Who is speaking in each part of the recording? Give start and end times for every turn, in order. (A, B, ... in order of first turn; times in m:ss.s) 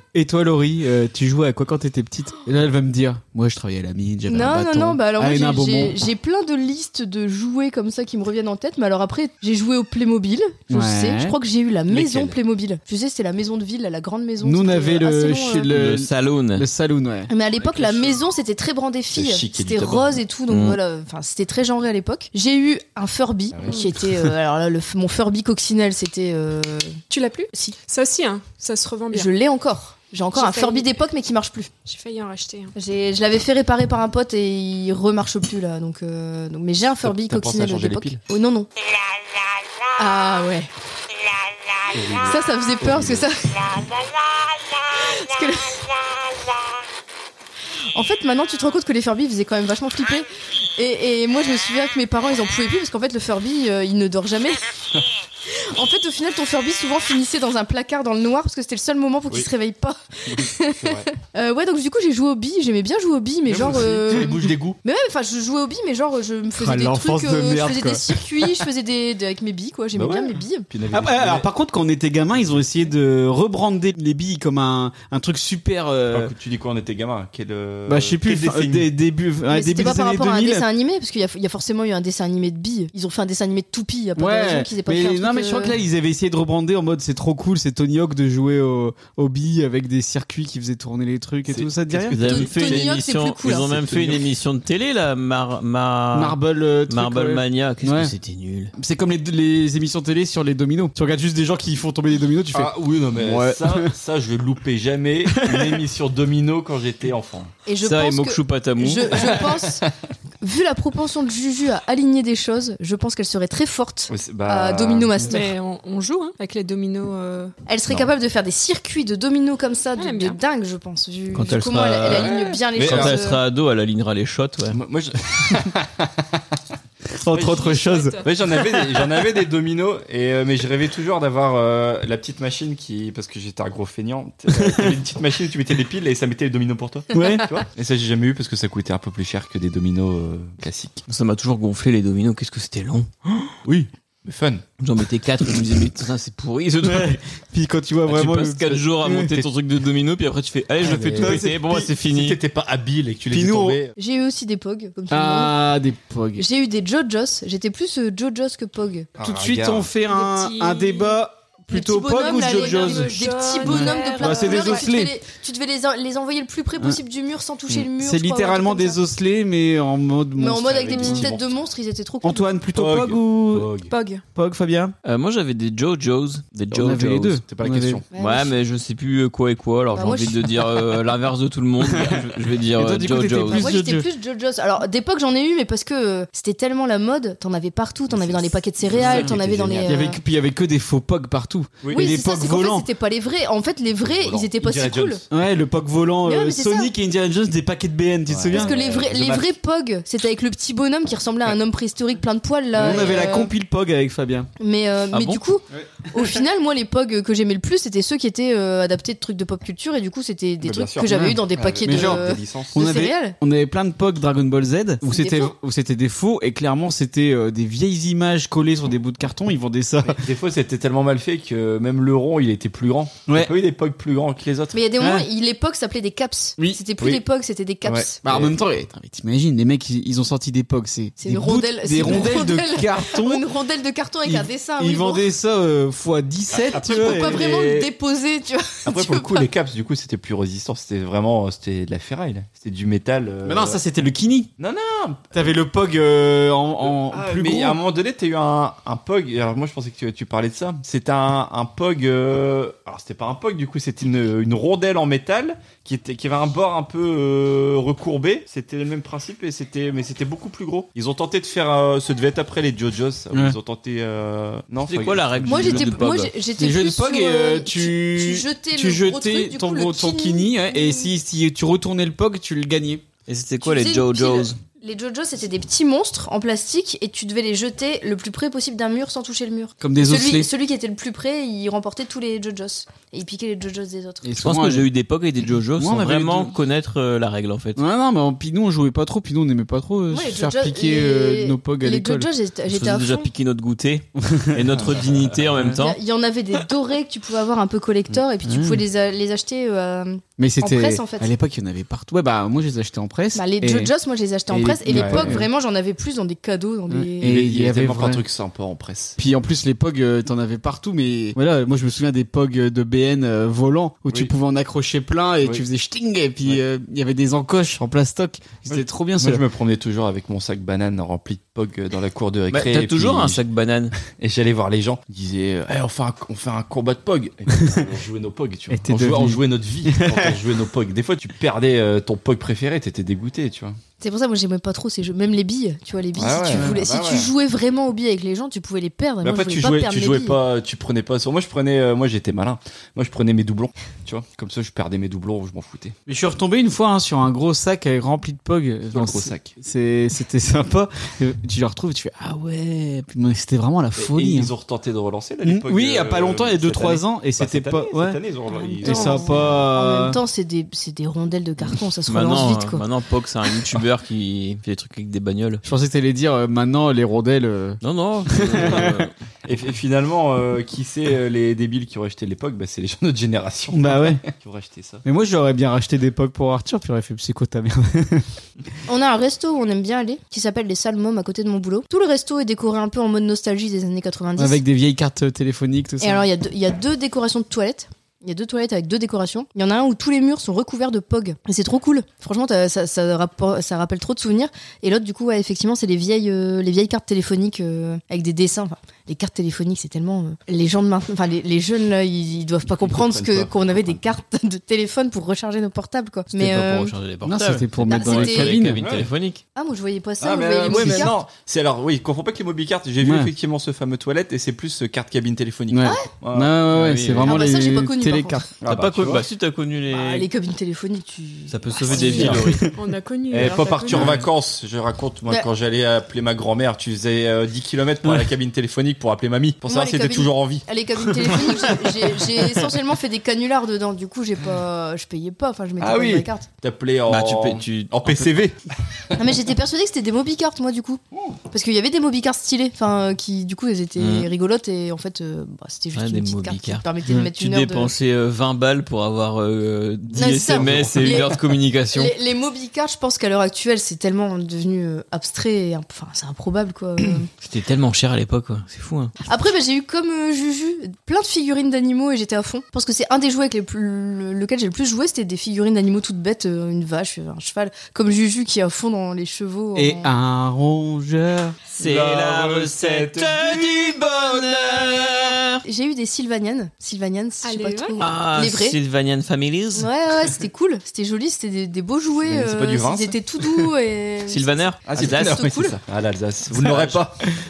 0:00.1-0:06.0 A
0:04.3-0:15.7 B
0:10.7-0:11.4 A
0:11.9-0:12.4 C
0:14.4-0:17.3 A
0:15.7-0:16.6 D
0:17.3-0:27.0 B
0:17.6-0:18.2 C
0:19.1-0:20.2 C
0:20.5-0:20.8 D
0:23.5-0:23.8 C
0:27.1-0:29.3 E
0:29.1-0:31.7 B
0:30.3-0:30.9 E
0:31.8-0:32.7 E
0:32.7-0:38.7 B
0:37.0-0:38.2 C
0:40.0-0:40.7 B
0:41.9-0:43.2 C
0:42.2-0:43.8 B
0:45.0-0:45.9 B
0:47.9-0:54.6 B
0:55.5-1:10.7 B
1:00.3-1:01.1 C
1:03.5-1:04.8 C
1:06.6-1:08.6 A
1:09.9-1:11.5 C
1:10.9-1:16.3 A
1:16.1-1:18.9 C
1:17.8-1:20.6 A
1:19.5-1:25.8 B
1:24.2-1:32.2 A
1:31.5-1:32.9 C
1:32.1-1:36.4 D
1:32.2-1:33.7 B
1:33.5-1:34.2 C
1:36.1-1:38.1 A
1:36.9-1:38.7 D
1:38.7-1:43.9 A
1:42.5-1:47.5 C
1:45.2-1:45.8 A
1:47.6-1:49.8 B
1:47.8-1:49.4 D
1:49.1-1:49.9 C
1:50.4-1:55.5 B
1:54.1-1:55.3 C
1:55.2-1:57.5 E
1:57.6-2:03.4 B
2:00.0-2:00.4 E
2:01.3-2:04.8 D
2:02.1-2:03.2 C
2:02.2-2:02.6 E
2:04.7-2:06.1 C
2:07.1-2:08.2 A
2:07.3-2:07.6 C
2:07.4-2:08.2 E
2:08.2-2:21.0 C
2:14.5-2:15.0 A
2:17.1-2:17.5 A
2:21.1-2:23.1 D
2:23.6-2:24.6 C
2:24.8-2:27.2 D
2:26.8-2:29.5 A
2:28.1-2:32.4 D
2:30.8-2:31.5 C
2:30.8-2:31.9 A
2:32.1-2:33.9 C
2:33.3-2:33.8 A
2:34.0-2:35.6 B
2:35.1-2:36.4 A
2:36.4-2:39.1 B
2:39.2-2:39.9 C
2:39.2-2:45.1 A
2:40.0-2:41.2 E
2:41.7-2:49.0 B
2:42.2-2:44.9 E
2:48.0-2:51.3 A
2:50.4-2:52.5 B
2:50.5-2:51.5 C
2:52.2-2:53.7 A
2:52.7-2:53.9 C
2:53.9-2:54.2 E
2:54.3-2:54.9 A
2:55.0-2:57.4 D
2:56.7-2:58.0 A
2:57.4-2:58.0 C
2:58.1-2:58.6 B
2:58.2-3:03.7 D
3:00.0-3:00.5 B
3:01.8-3:04.1 A
3:03.5-3:10.2 B
3:08.1-3:10.0 C
3:09.0-3:12.9 A
3:11.8-3:12.1 C
3:11.9-3:15.2 B
3:14.0-3:15.3 C
3:15.3-3:18.7 A
3:16.2-3:16.9 B
3:18.3-3:19.5 C
3:18.5-3:23.5 B
3:22.7-3:24.5 A
3:22.8-3:23.3 C
3:24.6-3:33.4 B
3:25.1-3:25.4 D
3:25.7-3:26.2 A
3:30.6-3:32.9 C
3:31.1-3:40.2 A
3:35.1-3:35.5 B
3:40.0-3:44.8 C
3:43.3-3:43.5 A
3:44.7-3:48.2 B
3:45.0-3:45.3 A
3:47.8-3:48.6 C
3:48.2-3:53.4 A
3:51.2-3:55.3 B
3:52.0-3:52.4 C
3:54.2-3:57.5 A
3:56.5-3:57.9 C
3:56.7-3:59.5 B
3:58.8-4:03.8 C
4:03.4-4:04.5 A
4:04.6-4:05.5 C
4:05.3-4:07.8 A
4:06.8-4:26.0 C
4:23.3-4:23.6 A
4:24.9-4:26.3 D
4:25.5-4:31.1 B
4:26.6-4:33.0 A
4:33.3-4:34.6 D
4:33.6-4:44.3 B
4:39.8-4:40.5 A
4:44.2-4:44.9 A
4:44.4-4:47.8 D
4:45.7-4:46.5 A
4:47.8-4:52.3 A
4:50.1-4:53.3 B
4:52.7-4:56.0 D
4:54.2-4:54.7 A
4:54.8-4:55.7 C
4:55.8-5:01.3 B
4:58.4-4:58.8 A
5:00.4-5:03.9 A
5:03.3-5:07.3 B
5:04.5-5:05.5 A
5:04.9-5:05.4 C
5:06.9-5:08.2 A
5:07.2-5:09.2 C
5:09.2-5:19.4 A
5:18.7-5:23.4 C
5:22.5-5:23.9 D
5:24.1-5:33.8 C
5:28.7-5:30.4 A
5:34.0-5:40.4 B
5:36.2-5:37.3 C
5:36.5-5:36.8 A
5:39.2-5:46.0 C
5:46.1-5:54.5 A
5:48.9-5:49.5 C
5:54.0-5:59.6 C
5:55.4-5:58.2 A
5:58.6-6:02.8 B
5:58.8-6:00.2 A
6:02.1-6:05.6 D
6:05.6-6:09.1 A
6:07.8-6:09.1 D
6:08.5-6:08.9 C
6:09.4-6:15.0 C
6:13.7-6:14.2 A
6:15.0-6:18.2 A
6:18.8-6:24.6 B
6:24.4-6:26.2 A
6:26.0-6:46.9 B
6:42.8-6:44.0 C
6:46.3-6:49.4 D
6:47.2-6:48.8 A
6:47.9-6:48.6 B
6:48.8-6:49.1 C
6:49.5-6:51.1 B
6:50.2-6:56.5 C
6:50.7-6:51.1 A
6:53.0-6:53.3 A
6:55.7-6:58.5 A
6:55.8-6:56.1 B
6:56.7-6:57.4 D
6:57.2-6:58.5 B
6:58.6-6:59.2 C
6:58.7-7:00.3 D
6:59.9-7:02.3 B
7:01.5-7:02.6 D
7:01.9-7:02.6 C
7:02.0-7:04.2 E
7:02.2-7:02.8 A
7:03.3-7:10.6 C
7:03.9-7:04.3 A
7:08.0-7:08.3 A
7:09.6-7:16.5 B
7:11.3-7:11.6 C
7:15.8-7:18.6 C
7:17.1-7:18.3 D
7:19.2-7:27.9 B
7:24.0-7:24.3 D
7:25.9-7:32.1 D
7:30.1-7:31.3 B
7:30.2-7:31.4 C
7:31.9-7:37.3 B
7:37.4-7:39.1 D
7:39.3-7:50.1 B
7:49.7-7:51.6 A
7:51.7-7:55.6 D
7:51.8-7:54.0 C
7:55.6-7:58.8 B
7:57.4-7:58.0 E
7:58.0-7:59.9 D
7:59.8-8:05.5 B
8:02.2-8:03.7 C
8:04.3-8:05.7 D
8:04.9-8:07.3 C
8:06.6-8:07.0 D